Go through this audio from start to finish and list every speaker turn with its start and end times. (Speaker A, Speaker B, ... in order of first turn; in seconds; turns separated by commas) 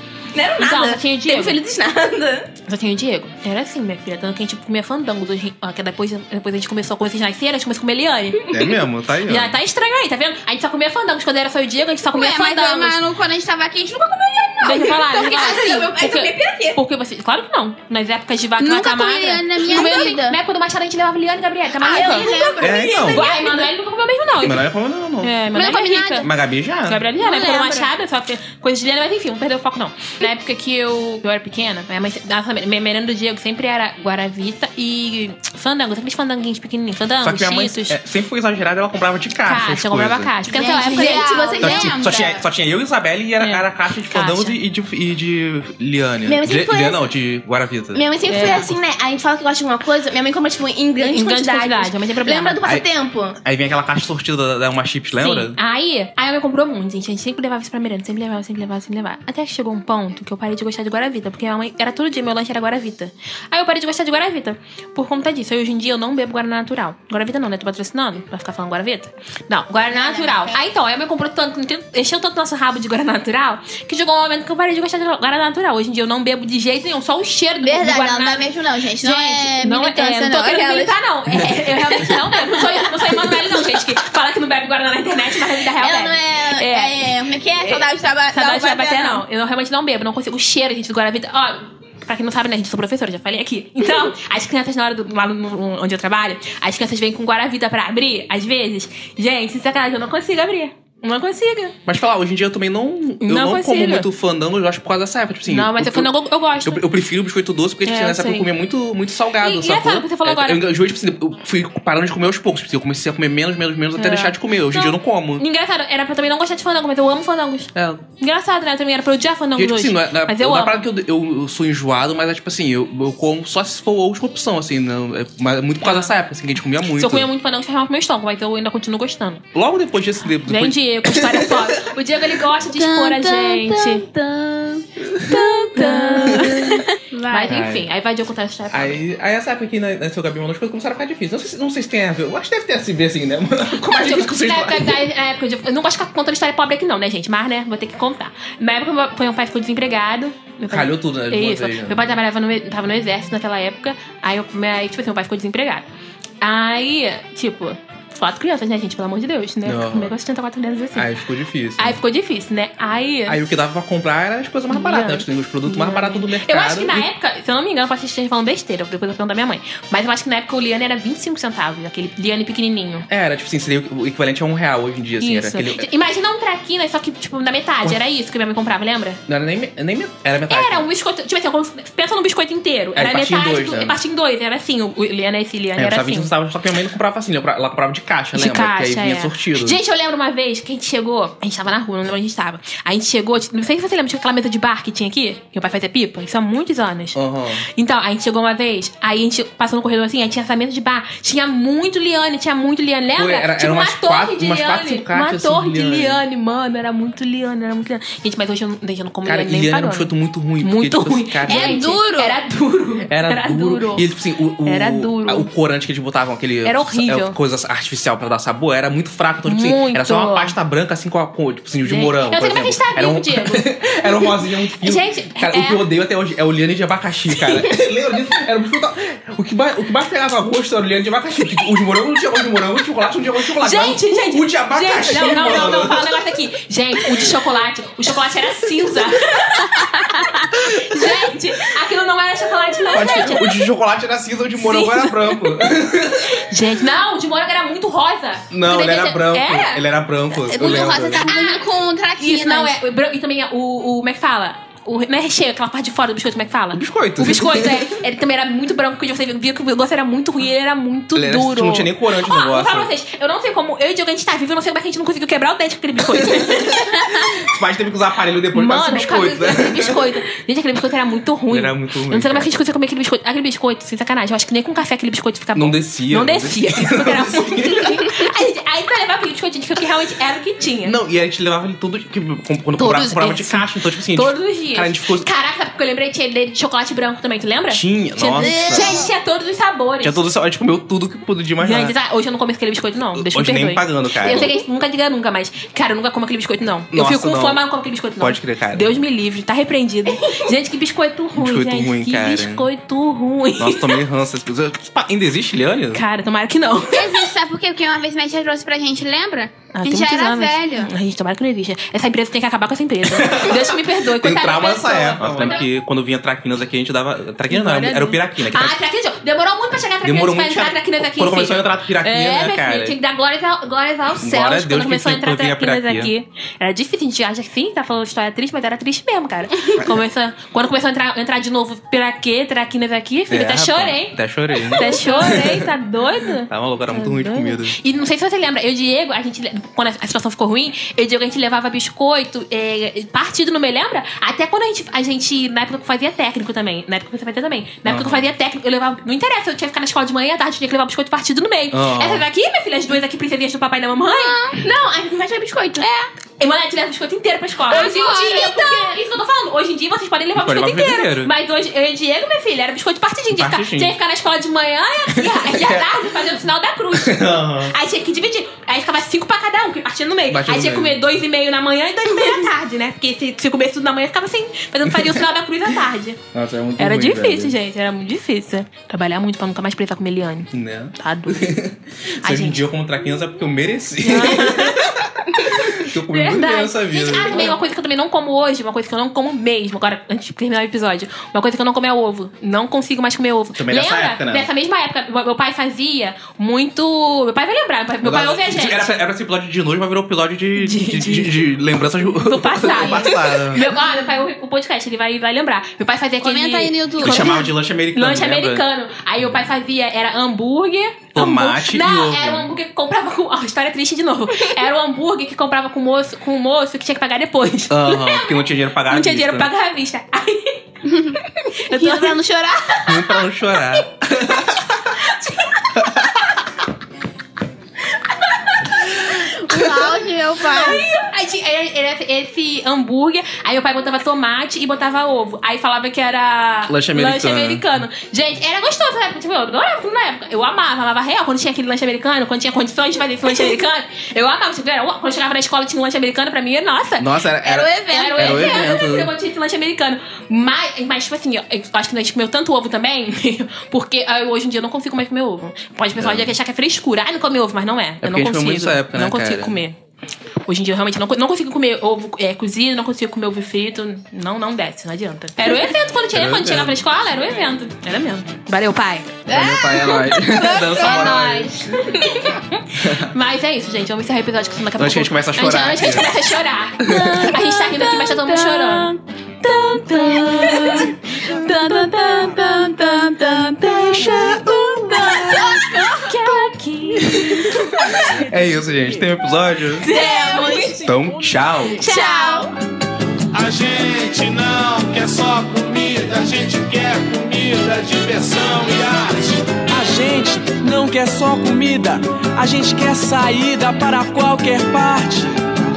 Speaker A: 0.3-2.5, Speaker B: 0.6-1.6, Speaker B: 2.6-8.4, Speaker C: 8.5-9.5, Speaker B: 9.3-13.0, Speaker D: 12.0-15.7, Speaker B: 14.6-22.3, Speaker A: 14.7-16.8, Speaker D: 18.6-20.4, Speaker D: 21.8-22.8, Speaker A: 21.8-23.7, Speaker C: 22.6-23.3, Speaker B: 23.1-24.6, Speaker C: 24.4-25.4, Speaker B: 25.2-26.3, Speaker D: 25.5-26.3, Speaker C: 26.2-27.1, Speaker B: 26.8-38.0, Speaker D: 27.2-27.9, Speaker C: 37.2-48.8, Speaker B: 39.5-41.9, Speaker D: 40.5-42.4, Speaker A: 40.5-41.5, Speaker B: 43.4-44.6, Speaker A: 46.3-47.0, Speaker A: 47.9-53.4, Speaker B: 48.3-48.7, Speaker B: 51.0-52.6, Speaker C: 52.6-55.5, Speaker B: 55.2-101.7, Speaker D: 69.9-70.6, Speaker D: 77.6-80.9, Speaker D: 85.9-89.2, Speaker C: 101.8-106.1, Speaker B: 103.2-104.1, Speaker B: 105.5-106.9, Speaker C: 106.6-115.4, Speaker B: 107.8-108.5, Speaker B: 109.4-110.6, Speaker B: 114.0-117.7, Speaker C: 117.7-118.0, Speaker B: 118.2-120.8, Speaker C: 119.5-127.3, Speaker B: 125.8-126.1, Speaker B: 126.9-129.4, Speaker C: 129.5-131.8, Speaker B: 130.4-134.0, Speaker D: 132.7-137.6, Speaker C: 135.0-136.7, Speaker B: 135.3-139.0, Speaker C: 137.4-137.8, Speaker C: 138.7-145.0, Speaker B: 143.8-155.9, Speaker C: 150.7-152.1, Speaker B: 156.4-161.1, Speaker C: 159.6-160.2, Speaker C: 160.9-162.0, Speaker B: 161.8-163.4, Speaker C: 163.3-167.1, Speaker B: 164.7-173.1, Speaker C: 173.1-175.8, Speaker B: 175.2-179.2, Speaker C: 179.3-180.8, Speaker B: 180.5-186.3, Speaker C: 182.9-184.0, Speaker C: 185.8-189.8, Speaker B: 188.3-214.1, Speaker C: 197.1-197.6, Speaker C: 203.2-206.2, Speaker C: 209.2-211.9, Speaker D: 211.4-212.4, Speaker C: 213.1-236.0, Speaker B: 214.6-215.5, Speaker B: 216.6-217.4, Speaker B: 219.4-220.6, Speaker B: 221.8-225.8, Speaker B: 227.3-227.6, Speaker B: 233.5-243.6, Speaker C: 242.9-246.4, Speaker B: 244.6-245.8, Speaker B: 246.3-249.8, Speaker C: 248.5-251.2, Speaker D: 250.3-252.8, Speaker B: 250.6-251.7, Speaker B: 252.2-267.5, Speaker C: 256.7-257.9, Speaker C: 261.1-262.9, Speaker C: 266.3-266.8, Speaker C: 267.4-270.1, Speaker B: 268.5-281.0, Speaker C: 271.5-272.5, Speaker C: 275.5-278.2, Speaker C: 280.8-285.3, Speaker B: 282.8-290.2, Speaker C: 287.7-289.0, Speaker D: 288.4-288.9, Speaker C: 290.0-291.9, Speaker B: 291.6-304.0, Speaker C: 293.1-294.5, Speaker C: 296.9-297.6, Speaker C: 298.2-299.0, Speaker C: 301.3-302.7, Speaker C: 303.6-306.0, Speaker B: 305.9-307.3, Speaker D: 306.9-310.9, Speaker B: 309.7-315.7, Speaker C: 313.0-318.8, Speaker B: 317.5-354.4, Speaker C: 320.0-323.0, Speaker C: 324.2-326.1, Speaker C: 333.3-335.5, Speaker C: 336.5-337.8, Speaker C: 347.8-348.3, Speaker C: 351.7-352.2, Speaker D: 354.1-354.6, Speaker D: 355.8-356.1, Speaker B: 356.4-376.2, Speaker D: 357.7-359.0, Speaker C: 360.3-361.3, Speaker C: 363.3-363.9, Speaker C: 365.1-365.9, Speaker C: 366.9-367.7, Speaker C: 370.3-371.0, Speaker C: 374.9-375.2, Speaker C: 376.3-377.6, Speaker B: 376.8-381.5, Speaker C: 380.5-387.6, Speaker B: 382.2-382.6, Speaker B: 384.0-384.8, Speaker B: 385.7-398.9, Speaker C: 393.5-394.5, Speaker C: 398.0-403.6, Speaker B: 400.6-401.5, Speaker B: 402.1-418.4, Speaker D: 402.6-403.4, Speaker D: 406.2-407.5, Speaker C: 407.0-408.6, Speaker C: 411.1-412.5, Speaker C: 417.7-419.5, Speaker B: 418.9-420.6, Speaker D: 420.9-423.2, Speaker B: 421.7-422.2, Speaker C: 422.8-424.9, Speaker B: 424.9-425.8, Speaker C: 425.8-426.2, Speaker B: 428.3-429.9, Speaker D: 429.1-430.9, Speaker B: 430.4-447.1, Speaker C: 436.7-437.6, Speaker C: 447.0-449.1, Speaker D: 447.4-448.7, Speaker B: 447.9-459.8, Speaker C: 455.9-456.4, Speaker C: 458.0-459.6, Speaker B: 460.4-469.2, Speaker C: 466.1-466.8, Speaker C: 469.3-471.7, Speaker D: 470.7-471.5, Speaker B: 470.8-488.3, Speaker C: 472.8-473.1, Speaker C: 474.8-476.1, Speaker C: 476.8-477.5, Speaker C: 479.9-480.9, Speaker C: 483.3-485.6, Speaker D: 485.0-485.6, Speaker C: 488.0-489.9, Speaker B: 489.8-490.8, Speaker C: 490.8-491.9, Speaker E: 491.1-491.4, Speaker B: 491.8-492.4, Speaker D: 491.8-492.5, Speaker F: 493.4-499.5, Speaker E: 499.5-505.4